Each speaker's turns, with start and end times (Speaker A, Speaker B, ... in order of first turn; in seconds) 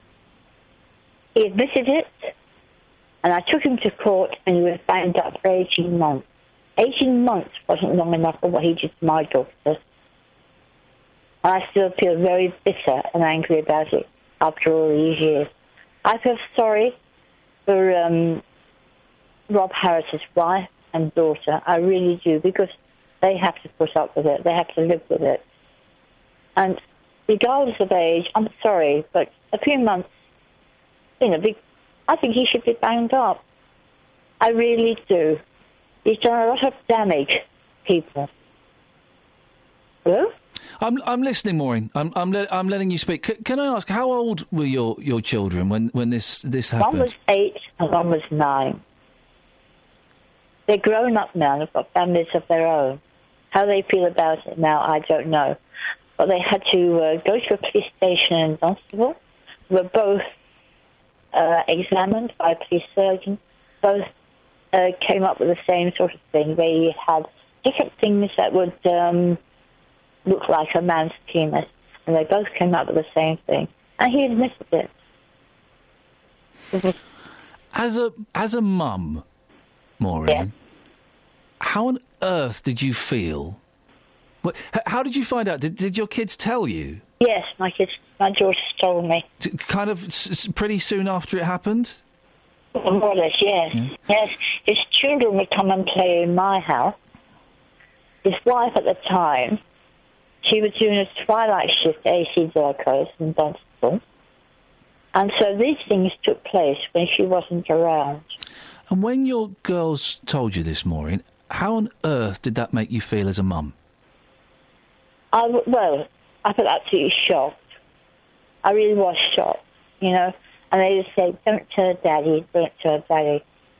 Speaker A: 1.3-2.3, 3.2-6.2, 6.8-9.8, 11.4-15.5, 16.0-16.9, 17.6-18.4, 19.5-25.4, 26.6-30.1, 31.2-33.4, 34.4-35.4, 36.0-38.3, 40.0-40.3, 46.8-48.8, 50.7-53.0, 53.5-55.6, 56.2-59.2, 59.7-60.3, 61.3-64.1, 64.7-69.4, 70.2-74.9, 87.2-89.2, 92.7-96.9, 98.2-99.6, 100.4-104.0, 105.1-108.3, 115.3-117.6, 118.6-123.4
Speaker B: 40.8-47.1, 77.7-79.2, 80.0-80.5, 81.6-83.6, 84.4-87.0, 89.4-92.0, 108.9-113.7